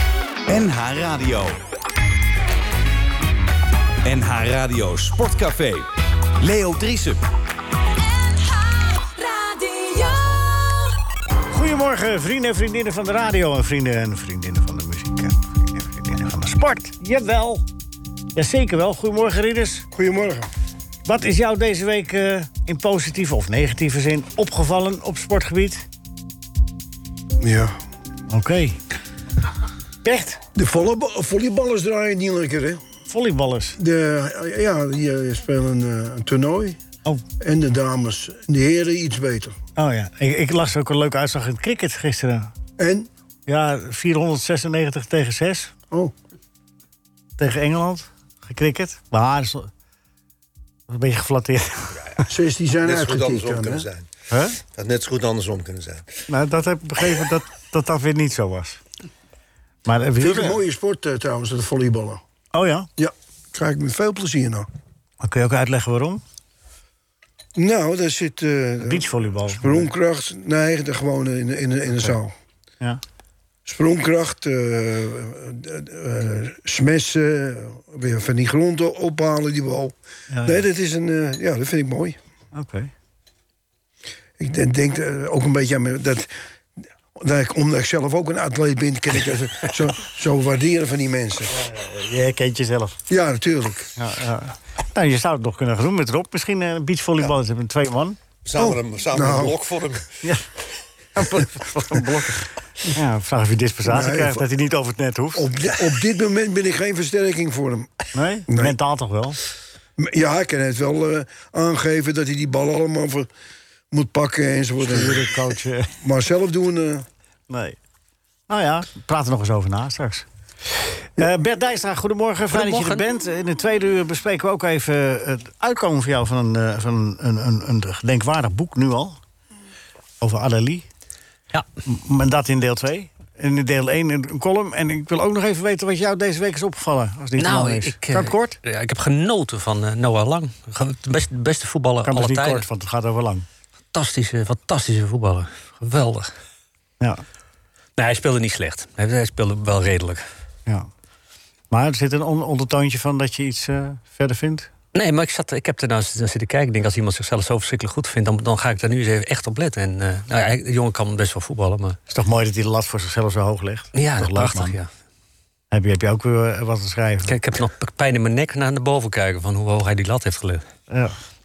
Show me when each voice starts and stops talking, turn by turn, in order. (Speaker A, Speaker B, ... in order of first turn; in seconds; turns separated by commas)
Speaker A: 0.5-1.6, Speaker A: 4.0-7.2, Speaker B: 8.1-10.8, Speaker C: 11.5-17.6, Speaker C: 18.3-19.9, Speaker D: 19.9-20.5, Speaker C: 21.1-25.8, Speaker D: 27.4-27.7, Speaker C: 28.3-28.8, Speaker C: 30.0-30.4, Speaker D: 30.6-32.8, Speaker C: 33.1-33.8, Speaker D: 33.8-36.8, Speaker D: 37.4-39.5, Speaker C: 39.8-42.5, Speaker D: 42.8-43.1, Speaker C: 43.5-45.7, Speaker C: 47.4-49.7, Speaker C: 50.9-52.0, Speaker D: 52.3-53.9, Speaker E: 52.8-54.1, Speaker C: 54.3-54.6, Speaker E: 54.7-56.0, Speaker C: 56.3-58.8, Speaker C: 59.9-60.6, Speaker D: 60.2-62.2, Speaker C: 62.5-62.9, Speaker D: 63.0-64.7, Speaker C: 65.2-66.2, Speaker D: 67.5-72.3, Speaker C: 68.8-69.9, Speaker D: 73.7-79.9, Speaker C: 80.3-80.6, Speaker D: 80.4-82.2, Speaker C: 82.5-82.9, Speaker D: 84.4-86.3, Speaker D: 87.2-91.5, Speaker C: 91.5-93.0, Speaker D: 93.1-93.9, Speaker C: 94.0-98.2, Speaker E: 98.4-100.1, Speaker D: 98.6-99.6, Speaker C: 101.2-105.5, Speaker D: 103.8-104.4, Speaker D: 105.3-107.9, Speaker C: 108.1-109.4, Speaker D: 108.5-108.7, Speaker D: 110.0-113.3, Speaker D: 113.9-115.3, Speaker C: 114.8-115.9, Speaker D: 116.0-117.0, Speaker C: 117.5-117.8, Speaker C: 118.5-120.3, Speaker C: 121.2-129.2, Speaker F: 122.5-123.0, Speaker C: 130.2-130.8, Speaker C: 131.8-138.6, Speaker F: 137.4-142.6, Speaker C: 142.0-143.4, Speaker F: 143.9-146.3, Speaker F: 148.0-150.2, Speaker C: 151.7-154.7, Speaker F: 154.9-162.0, Speaker C: 162.1-164.8, Speaker F: 163.9-164.9, Speaker C: 165.7-167.3, Speaker F: 167.3-170.6, Speaker C: 170.9-171.1